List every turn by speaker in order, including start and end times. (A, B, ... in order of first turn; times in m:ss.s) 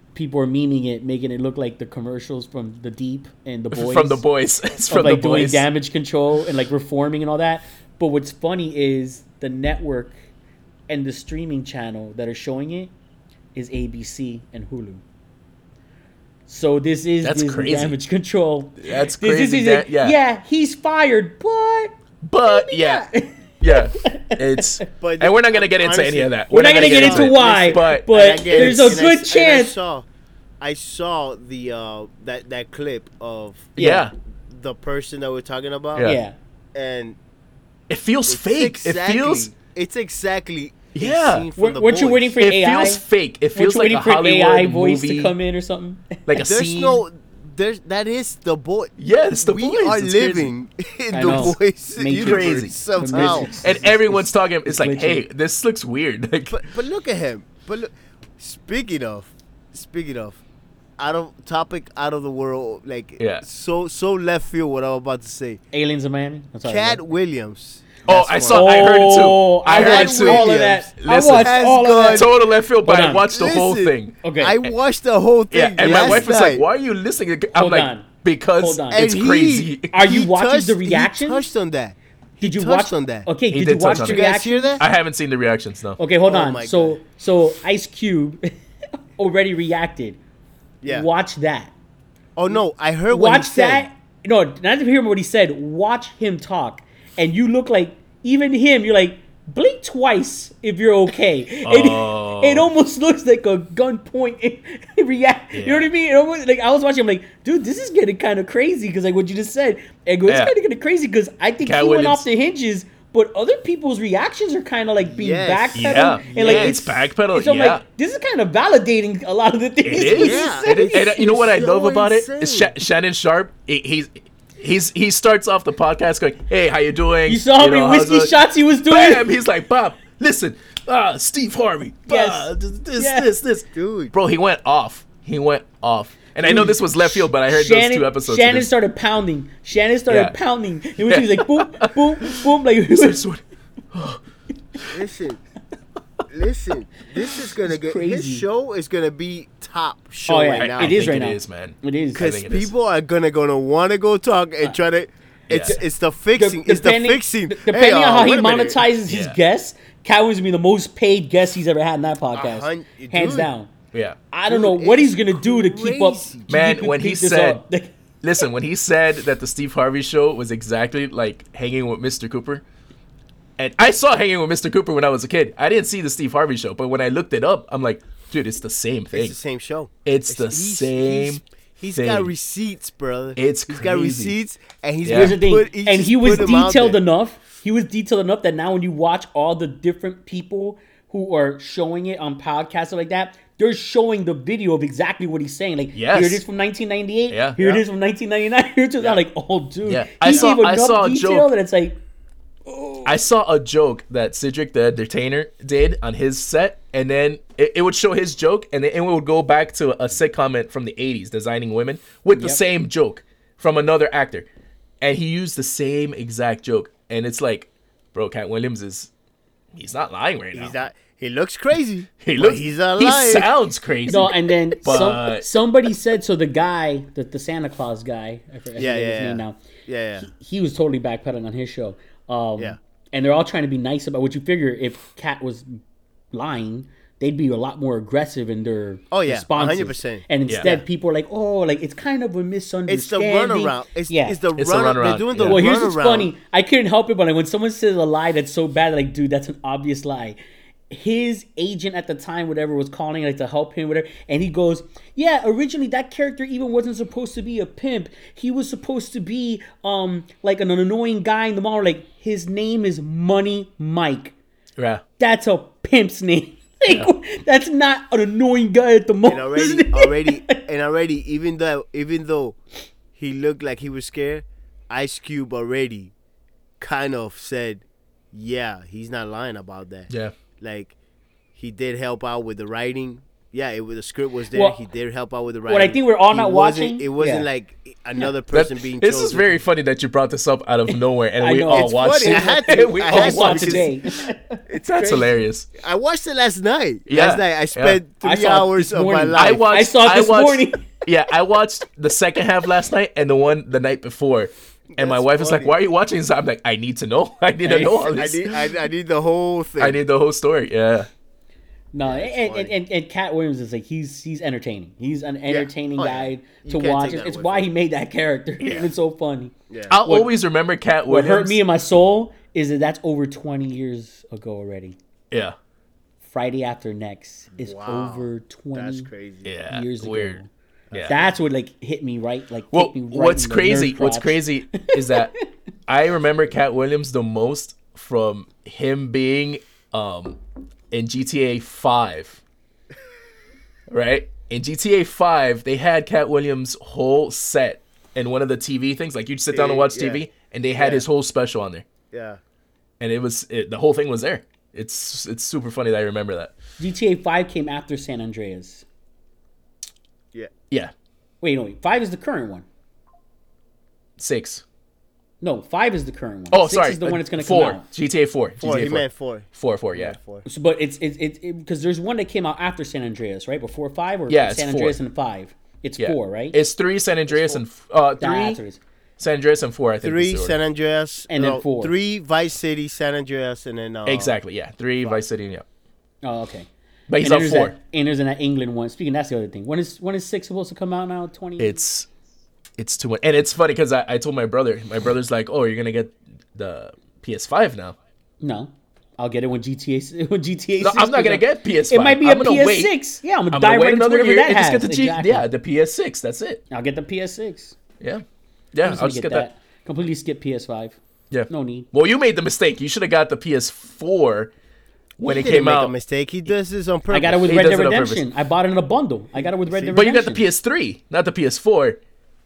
0:00.1-0:04.2 A
0:03.7-0:05.7 B
0:04.9-0:10.2 A
0:10.9-0:12.9 A
0:13.5-0:15.0 A
0:16.5-0:24.8 A
0:17.2-0:18.0 B
0:18.8-0:20.2 B
0:22.2-0:23.0 B
0:23.6-0:29.0 B
0:25.0-0:30.0 C
0:26.5-0:29.8 A
0:30.6-0:33.8 C
0:33.8-0:34.1 B
0:33.8-0:34.1 A
0:34.5-0:36.1 C
0:36.0-0:36.4 A
0:36.7-0:37.2 C
0:37.9-0:39.5 B
0:38.3-0:42.3 C
0:40.9-0:41.5 B
0:41.6-0:43.0 A
0:42.4-0:45.3 B
0:43.5-0:46.2 A
0:46.3-0:47.0 B
0:46.3-0:53.7 C
0:49.0-0:50.5 B
0:51.1-0:55.2 A
0:51.2-0:51.5 B
0:52.1-0:56.6 B
0:56.5-1:00.4 C
1:01.0-1:05.6 C
1:03.2-1:03.4 B
1:05.7-1:07.0 A
1:06.6-1:09.1 C
1:08.1-1:14.2 B
1:08.5-1:12.3 A
1:09.6-1:12.3 C
1:12.8-1:13.3 A
1:13.2-1:16.6 C
1:14.2-1:14.6 A
1:15.5-1:19.9 B
1:15.8-1:16.2 A
1:17.5-1:19.0 A
1:18.9-1:23.3 C
1:19.9-1:21.5 A
1:22.4-1:24.8 A
1:23.5-1:24.2 B
1:23.9-1:24.8 C
1:24.8-1:26.0 B
1:26.0-1:28.5 A
1:26.2-1:27.0 C
1:29.2-1:30.2 A
1:30.8-1:31.1 C
1:30.8-1:31.7 A
1:32.4-1:33.8 C
1:33.1-2:01.2 A
1:41.6-1:42.7 B
1:45.5-1:45.9 B
1:50.3-1:50.5 B
1:51.6-1:52.2 B
1:55.0-1:56.8 C
1:55.7-1:57.8 B
1:59.8-2:18.7 B
2:00.1-2:02.7 C
2:07.3-2:09.2 A
2:12.1-2:13.3 A
2:13.7-2:14.1 C
2:16.4-2:23.2 A
2:20.1-2:20.3 B
2:21.0-2:23.4 B
2:23.9-2:24.2 B
2:24.9-2:25.4 C
2:26.3-2:31.0 C
2:27.6-2:28.4 A
2:30.3-2:32.2 A
2:30.6-2:32.7 B
2:32.1-2:38.8 C
2:35.5-2:35.8 B
2:36.3-2:43.7 A
2:39.1-2:39.4 B
2:42.3-2:43.5 C
2:44.3-2:47.9 A
2:44.5-2:46.5 C
2:46.5-2:47.6 B
2:48.2-2:52.6 B
2:53.6-2:59.4 B
2:59.1-3:07.0 C
3:00.0-3:01.4 B
3:01.9-3:02.3 B
3:03.4-3:04.4 B
3:05.0-3:05.4 B
3:05.1-3:22.0 A
3:15.9-3:16.4 B
3:17.3-3:17.6 B
3:17.6-3:17.8 C
3:19.8-3:21.5 B
3:20.3-3:20.5 C
3:22.7-3:23.1 A
3:23.0-3:34.5 B
3:32.4-3:32.6 A
3:35.0-3:39.1 B
3:39.7-3:40.8 B
3:40.5-3:43.5 C
3:42.2-3:45.5 B
3:44.1-3:49.6 A
3:48.8-3:50.3 C
3:50.2-3:55.8 A
3:56.3-4:04.4 A
3:59.1-4:00.8 C
4:02.9-4:06.3 C
4:04.6-4:05.6 B
4:05.4-4:24.3 A
4:24.8-4:25.0 B
4:25.2-4:30.6 A
4:29.2-4:32.6 C
4:33.2-4:36.1 C
4:36.8-4:40.9 C
4:41.5-4:49.6 C
4:44.5-4:44.8 A
4:45.7-4:47.5 A
4:48.5-4:54.0 B
4:51.4-4:54.6 A
4:51.7-4:54.0 C
4:54.7-4:59.6 C
4:54.8-4:55.7 B
4:57.1-4:58.0 B
4:58.2-5:00.9 A
4:59.4-5:08.7 B
5:04.9-5:05.7 C
5:07.6-5:08.1 A
5:07.9-5:10.0 C
5:09.8-5:11.1 B
5:11.9-5:20.3 A
5:12.0-5:12.7 C
5:15.5-5:17.7 C
5:18.6-5:18.9 B
5:19.7-5:19.9 C
5:19.9-5:21.6 B
5:21.1-5:25.0 A
5:26.2-5:29.1 A
5:27.5-5:29.5 C
5:29.4-5:30.4 B
5:29.7-5:30.5 A
5:30.9-5:31.3 C
5:31.1-5:35.3 A
5:32.7-5:35.3 B
5:35.9-5:40.4 B
5:40.9-5:42.4 B
5:43.9-5:51.8 B
5:49.5-5:50.2 C
5:50.8-5:51.0 C
5:52.1-5:52.4 C
5:53.0-5:56.5 B
5:56.8-5:58.8 A
6:01.4-6:02.6 A
6:04.2-6:04.6 B
6:05.4-6:07.9 A
6:06.5-6:10.2 B
6:08.6-6:10.4 C
6:10.4-6:16.6 A
6:14.3-6:15.0 B
6:16.0-6:18.6 B
6:18.2-6:18.8 A
6:19.2-6:20.6 B
6:20.0-6:24.4 C
6:21.3-6:21.9 A
6:24.0-6:25.6 B
6:26.2-6:26.7 A
6:27.1-6:27.7 B
6:27.2-6:31.8 A
6:31.6-6:32.1 B
6:32.8-6:37.9 B
6:38.4-6:45.5 A
6:40.8-6:43.0 B
6:43.5-6:46.6 B
6:46.7-6:47.8 A
6:48.0-6:49.5 B
6:48.8-6:51.0 A
6:51.3-6:54.5 B
6:51.5-6:51.9 A
6:55.2-6:55.9 B
6:55.2-6:57.6 C
6:57.1-7:00.4 A
6:57.4-6:58.2 B
6:59.6-7:00.0 C
6:59.9-7:02.0 B